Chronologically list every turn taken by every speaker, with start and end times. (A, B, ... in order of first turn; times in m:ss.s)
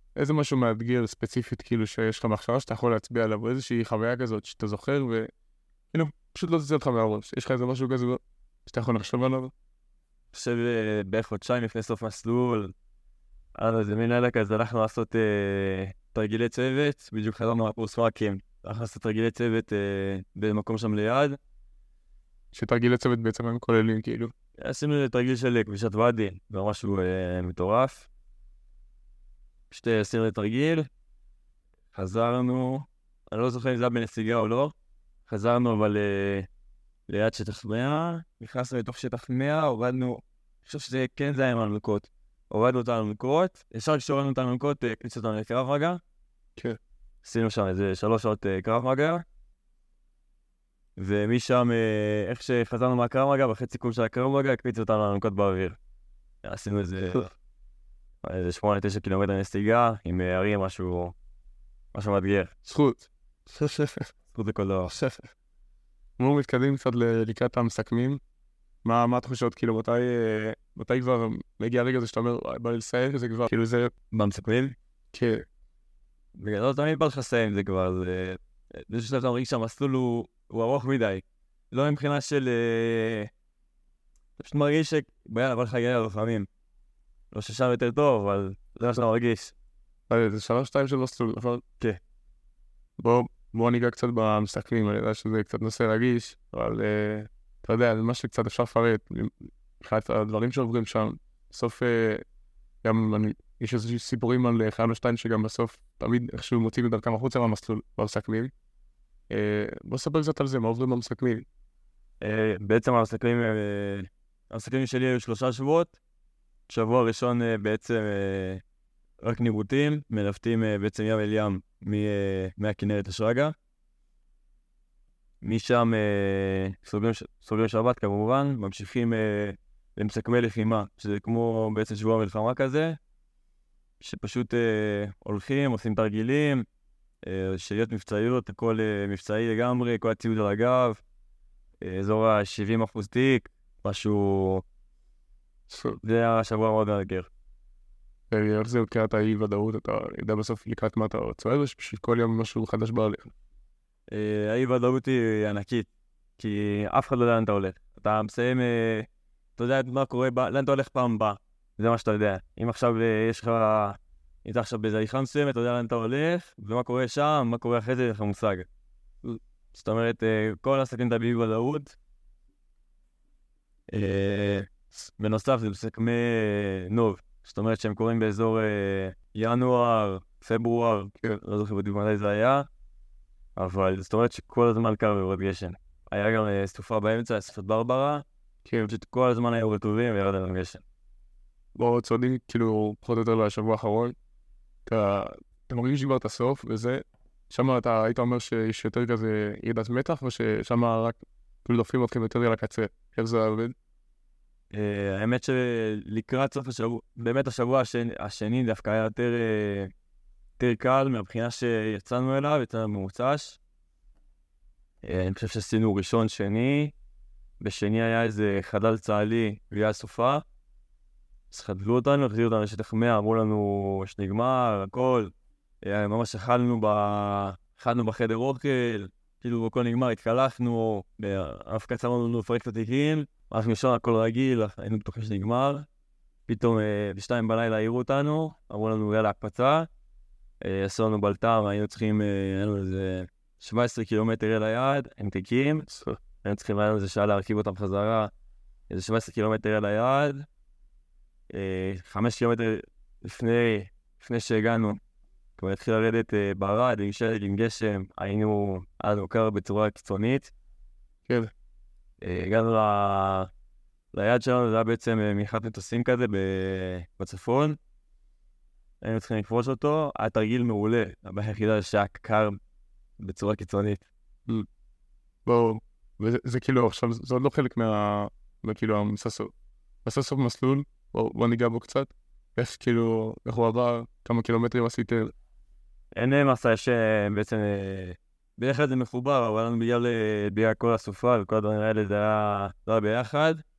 0:00.2-0:05.3 A
0:05.9-0:09.5 A
0:10.3-0:12.7 B
0:13.6-0:21.4 B
0:22.5-0:24.3 A
0:24.6-0:28.1 B
0:29.7-0:30.9 B
0:31.9-0:34.7 B
0:35.3-0:36.5 B
0:37.1-0:46.0 B
0:47.2-0:49.2 B
0:51.0-0:55.8 B
0:56.4-0:57.3 B
0:58.2-1:01.2 B
1:01.9-1:02.5 B
1:02.7-1:04.1 A
1:04.3-1:05.0 B
1:04.9-1:05.2 A
1:06.2-1:08.2 A
1:08.8-1:13.9 A
1:14.1-1:14.8 B
1:15.1-1:15.5 A
1:16.4-1:23.3 B
1:24.4-1:26.5 B
1:27.3-1:29.5 B
1:30.1-1:31.6 A
1:33.0-1:42.2 A
1:42.8-1:48.5 A
1:49.3-1:51.5 A
1:52.2-1:56.0 B
1:56.7-1:58.6 B
1:59.2-2:03.6 B
2:05.4-2:13.0 B
2:14.0-2:16.6 B
2:17.2-2:21.0 B
2:21.8-2:24.6 B
2:25.7-2:26.0 A
2:26.0-2:27.3 B
2:28.3-2:33.3 A
2:34.1-2:48.7 B
2:49.7-2:52.0 B
2:53.9-3:02.7 B
3:03.6-3:08.2 B
3:08.6-3:08.9 A
3:08.8-3:10.8 B
3:11.8-3:14.2 A
3:14.9-3:23.8 A
3:24.7-3:29.9 B
3:30.6-3:33.6 B
3:35.0-3:36.9 B
3:37.6-3:40.4 B
3:41.5-3:55.9 B
3:56.5-3:59.9 B
4:00.6-4:05.9 B
4:05.9-4:06.2 A
4:06.4-4:08.3 B
4:08.9-4:10.5 B
4:11.5-4:15.0 B
4:15.6-4:20.5 B
4:21.3-4:21.5 A
4:22.2-4:23.5 B
4:24.1-4:27.8 B
4:29.0-4:32.6 B
4:33.2-4:34.1 B
4:35.5-4:39.5 A
4:40.0-4:45.3 A
4:46.1-4:53.6 B